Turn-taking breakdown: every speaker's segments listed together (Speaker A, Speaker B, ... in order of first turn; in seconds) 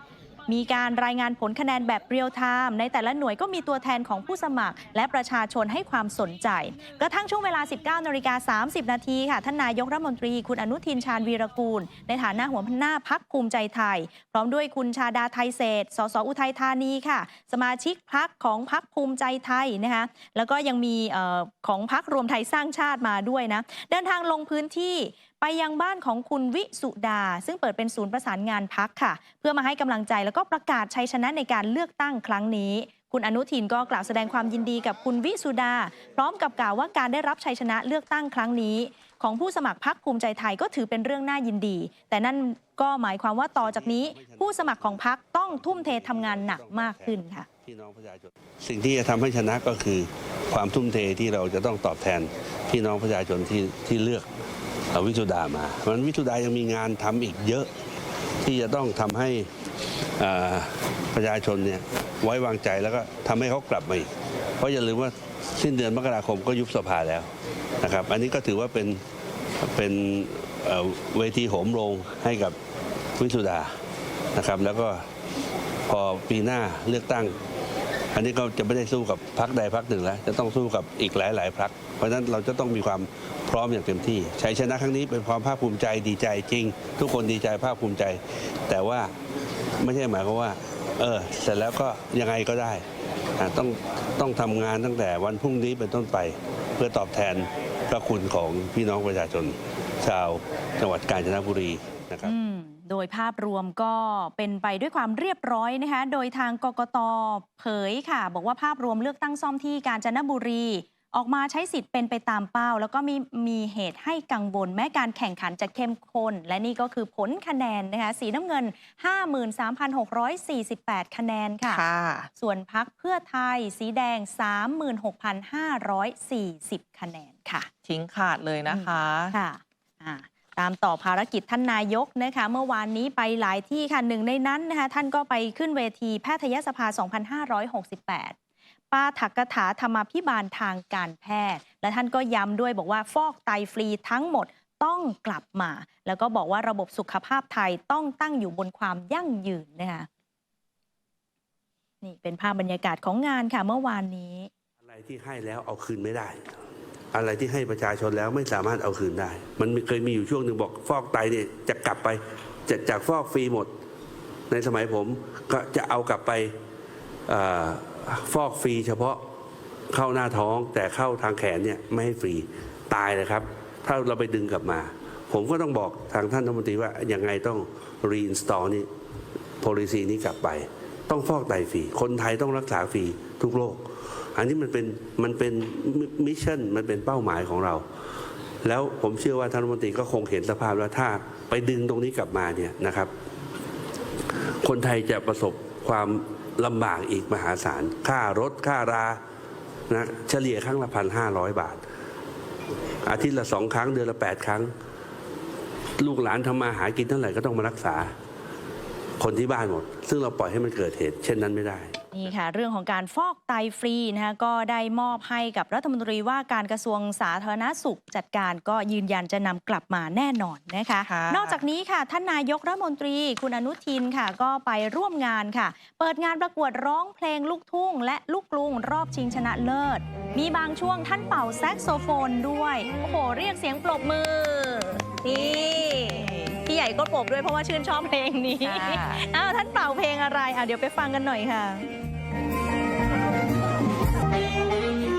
Speaker A: 0.5-47.5, 102.2-121.8, 122.4-127.7, 128.7-138.3, 138.9-150.1, 152.0-154.5, 212.1-241.8
Speaker B: 43.6-54.3, 54.9-57.7, 58.4-59.5, 60.2-67.3, 67.8-69.0, 69.7-72.5, 73.2-73.7, 74.3-75.0, 75.9-77.3, 78.1-89.1, 89.8-92.8, 93.4-102.3, 154.8-156.4, 157.1-163.7, 164.5-166.5, 167.3-169.2, 169.9-178.9, 179.6-183.8, 184.3-187.8, 188.6-193.1, 194.6-199.2, 199.9-201.8, 203.1-204.7, 206.0-208.1, 209.2-212.0
Speaker C: 121.7-122.3, 127.8-129.3, 221.0-221.6, 235.3-236.6, 238.6-239.2